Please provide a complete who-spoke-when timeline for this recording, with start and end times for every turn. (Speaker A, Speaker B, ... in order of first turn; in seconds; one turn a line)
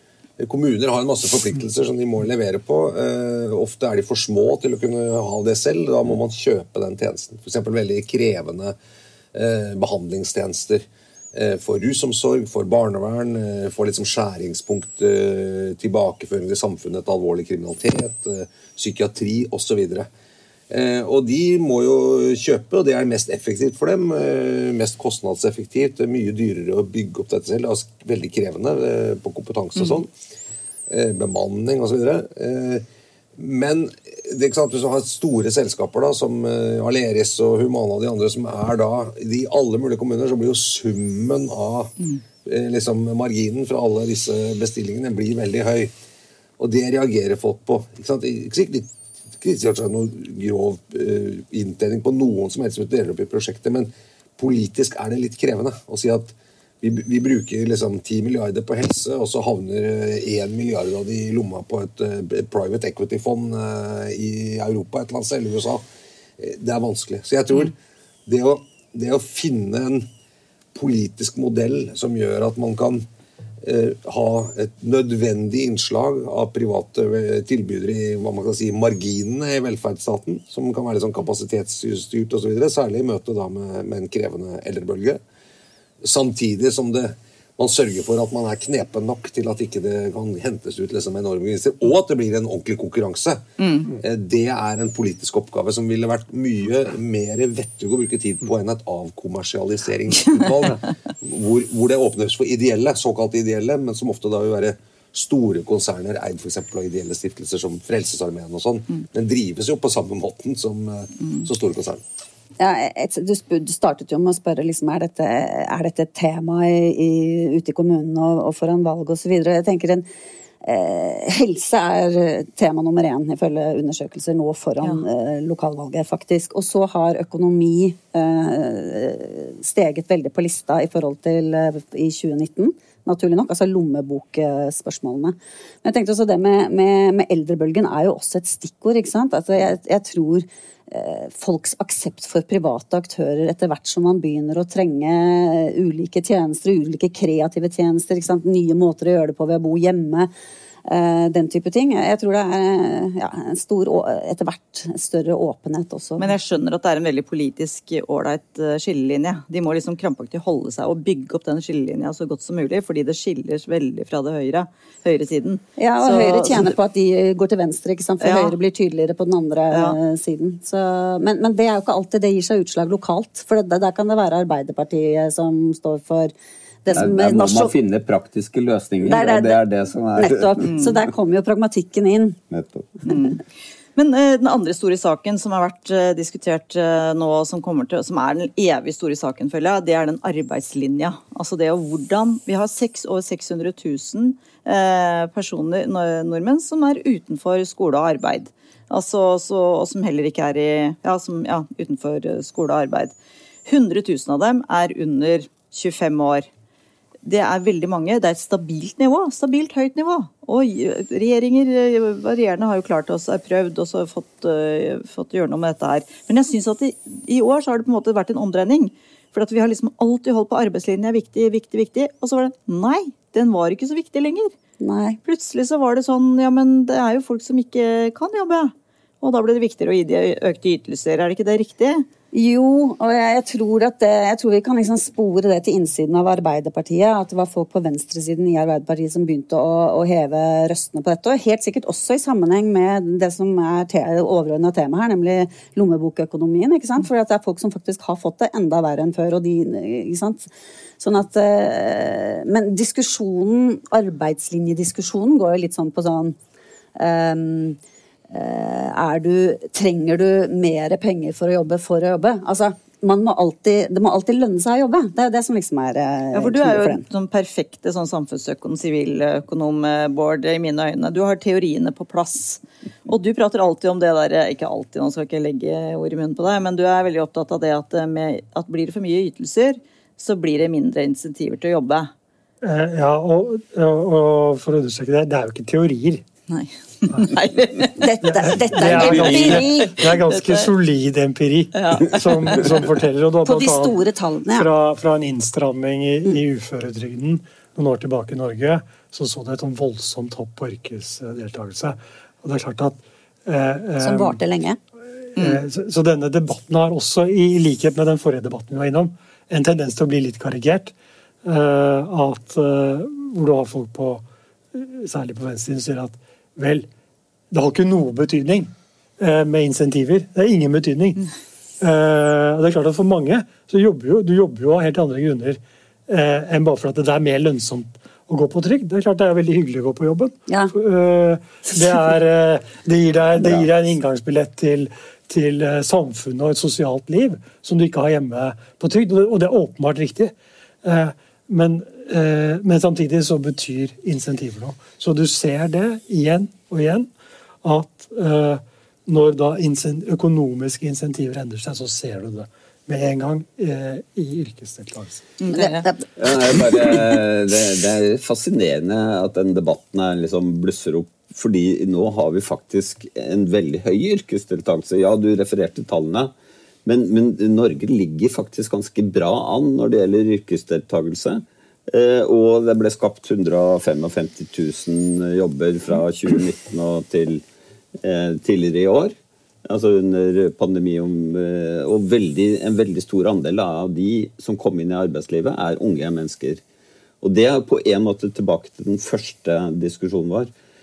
Speaker A: 0.4-8.8
Speaker A: 9.3-20.1
Speaker A: 20.7-30.1
Speaker A: 30.9-32.8
Speaker A: 33.4-45.9
Speaker A: 46.6-65.8
Speaker A: 66.4-67.7
Speaker A: 68.2-70.0
Speaker A: 70.7-73.0
Speaker A: 73.6-85.2
Speaker A: 86.0-112.0
Speaker B: 93.6-93.9
Speaker C: 112.6-120.0
Speaker C: 120.6-150.3
Speaker C: 150.8-156.3
Speaker B: 156.2-166.7
Speaker C: 165.8-176.3
Speaker B: 168.2-168.6
Speaker B: 169.7-170.0
Speaker C: 176.8-177.7
Speaker D: 176.9-180.9
Speaker C: 179.0-179.6
Speaker C: 180.2-182.4
Speaker B: 180.6-180.9
Speaker D: 182.5-182.9
Speaker B: 183.1-183.4
Speaker B: 183.9-203.1
Speaker B: 203.7-206.5
Speaker B: 207.2-224.5
Speaker C: 224.8-225.2
Speaker B: 225.2-232.1
Speaker C: 232.3-256.4
Speaker C: 256.9-257.8
Speaker C: 258.3-267.0
Speaker B: 266.3-282.1
Speaker E: 282.6-286.2
Speaker B: 286.5-288.0
Speaker C: 287.9-290.0
Speaker E: 288.2-294.0
Speaker B: 289.0-289.6
Speaker B: 290.3-290.7
Speaker B: 291.7-292.7
Speaker C: 293.4-294.7
Speaker E: 294.5-304.4
Speaker C: 304.0-304.8
Speaker E: 305.3-310.9
Speaker E: 311.4-316.9
Speaker E: 317.5-321.3
Speaker E: 321.8-347.1
Speaker C: 330.5-330.7
Speaker E: 347.6-355.3
Speaker B: 355.4-355.9
Speaker C: 355.5-356.0
Speaker D: 356.2-366.3
Speaker D: 366.8-377.4
Speaker D: 378.0-379.1
Speaker D: 379.6-386.6
Speaker D: 387.2-390.5